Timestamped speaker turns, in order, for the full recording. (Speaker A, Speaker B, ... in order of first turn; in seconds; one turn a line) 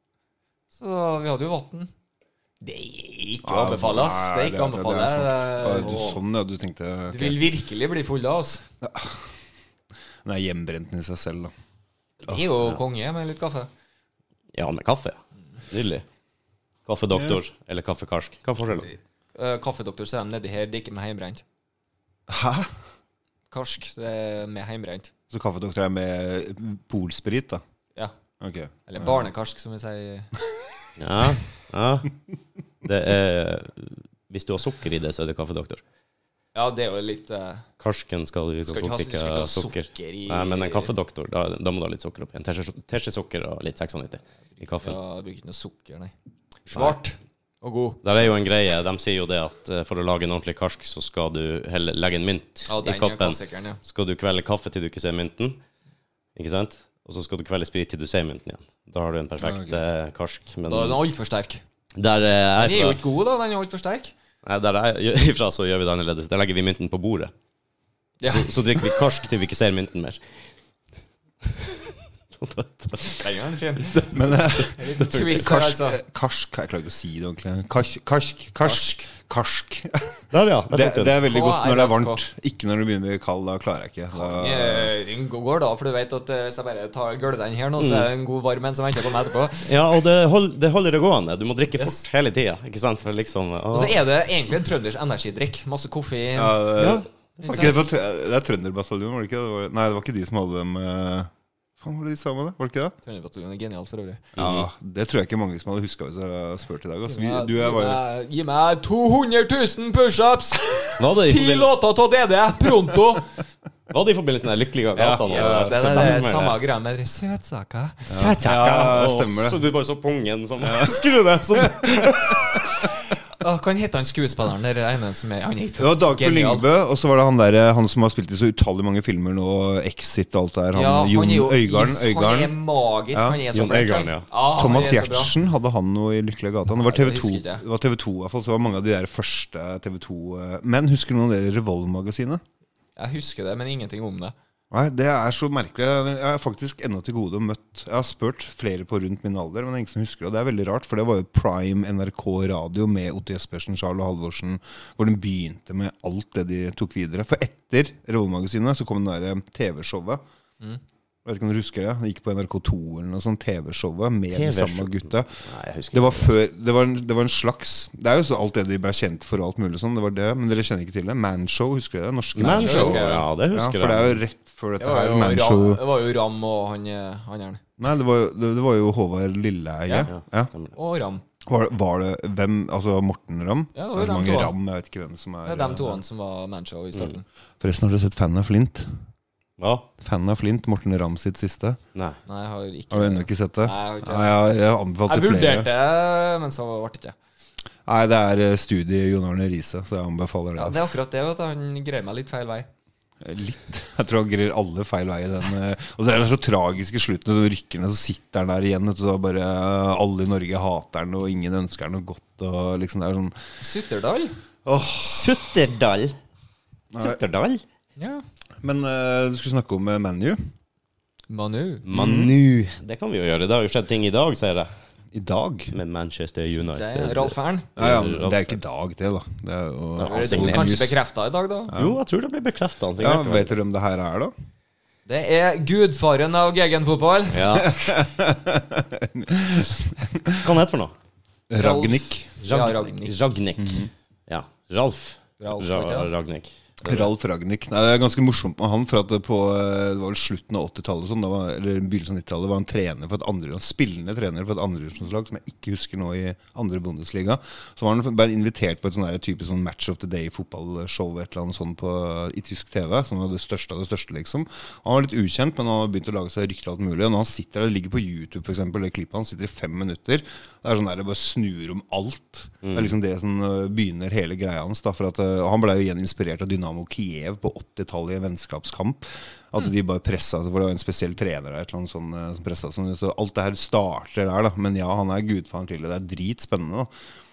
Speaker A: 0.7-1.9
Speaker A: 2.6-6.2
Speaker B: 3.4-7.4
Speaker A: 7.1-8.6
Speaker B: 8.8-9.3
Speaker B: 10.2-11.5
Speaker A: 12.2-13.7
Speaker C: 14.5-15.2
Speaker C: 15.7-16.0
Speaker C: 16.9-18.9
Speaker B: 17.1-17.4
Speaker A: 19.3-21.4
Speaker B: 22.3-22.7
Speaker A: 23.5-25.1
Speaker B: 25.3-27.6
Speaker B: 28.4-29.3
Speaker A: 28.9-30.3
Speaker C: 31.0-32.1
Speaker C: 32.8-35.8
Speaker A: 36.5-37.6
Speaker C: 37.8-45.0
Speaker A: 38.6-40.9
Speaker A: 44.6-46.1
Speaker C: 46.7-47.0
Speaker A: 46.7-48.0
Speaker C: 48.0-55.6
Speaker A: 52.7-53.8
Speaker C: 56.4-61.0
Speaker B: 59.4-59.8
Speaker A: 60.7-61.6
Speaker C: 62.0-63.0
Speaker A: 62.5-64.1
Speaker C: 64.4-67.3
Speaker A: 68.2-69.0
Speaker C: 68.3-70.2
Speaker C: 71.4-73.3
Speaker A: 73.0-74.0
Speaker C: 73.9-75.2
Speaker B: 74.1-84.9
Speaker A: 74.5-76.0
Speaker A: 78.6-79.1
Speaker C: 80.3-81.2
Speaker A: 81.2-82.2
Speaker A: 84.1-89.7
Speaker C: 87.8-88.1
Speaker C: 89.6-94.0
Speaker A: 91.8-92.1
Speaker A: 93.7-97.9
Speaker B: 96.3-102.9
Speaker C: 96.8-97.0
Speaker A: 103.0-104.2
Speaker B: 104.4-108.0
Speaker C: 104.4-104.7
Speaker A: 107.1-113.2
Speaker C: 111.0-111.7
Speaker C: 113.9-116.6
Speaker B: 115.0-116.1
Speaker A: 115.2-118.4
Speaker B: 118.1-119.6
Speaker C: 118.1-122.7
Speaker B: 120.6-122.7
Speaker A: 123.4-126.6
Speaker B: 125.8-132.5
Speaker A: 130.7-135.3
Speaker B: 133.1-133.4
Speaker C: 133.5-134.3
Speaker B: 134.6-142.4
Speaker A: 136.7-137.6
Speaker A: 142.9-144.3
Speaker B: 144.7-160.2
Speaker B: 161.2-165.4
Speaker C: 164.3-166.3
Speaker B: 165.9-175.8
Speaker C: 172.3-174.2
Speaker A: 172.5-173.2
Speaker A: 174.8-177.6
Speaker B: 177.8-180.5
Speaker C: 180.1-180.7
Speaker A: 180.7-181.2
Speaker B: 181.4-186.0
Speaker A: 183.7-184.6
Speaker A: 185.4-187.2
Speaker B: 187.6-188.9
Speaker C: 189.6-189.9
Speaker B: 190.0-191.8
Speaker A: 192.2-194.4
Speaker B: 192.9-195.7
Speaker A: 195.1-197.2
Speaker B: 197.9-201.0
Speaker A: 200.6-202.7
Speaker B: 203.2-213.3
Speaker A: 213.6-214.3
Speaker B: 214.6-215.6
Speaker C: 215.0-216.2
Speaker B: 216.9-217.2
Speaker C: 216.9-217.6
Speaker A: 218.0-218.2
Speaker B: 218.6-220.4
Speaker A: 221.3-221.9
Speaker C: 221.9-224.7
Speaker B: 221.9-222.3
Speaker B: 225.1-225.7
Speaker C: 225.7-228.6
Speaker A: 226.5-227.7
Speaker B: 227.8-230.9
Speaker C: 230.0-230.7
Speaker A: 230.0-231.7
Speaker B: 231.7-232.0
Speaker C: 231.7-233.6
Speaker B: 233.0-234.3
Speaker A: 235.1-237.4
Speaker C: 237.3-237.8
Speaker B: 237.6-240.5
Speaker C: 240.4-240.9
Speaker B: 241.5-242.3
Speaker A: 241.6-243.2
Speaker C: 242.4-247.1
Speaker B: 243.6-243.9
Speaker A: 245.4-246.1
Speaker B: 246.8-286.9
Speaker C: 272.6-272.9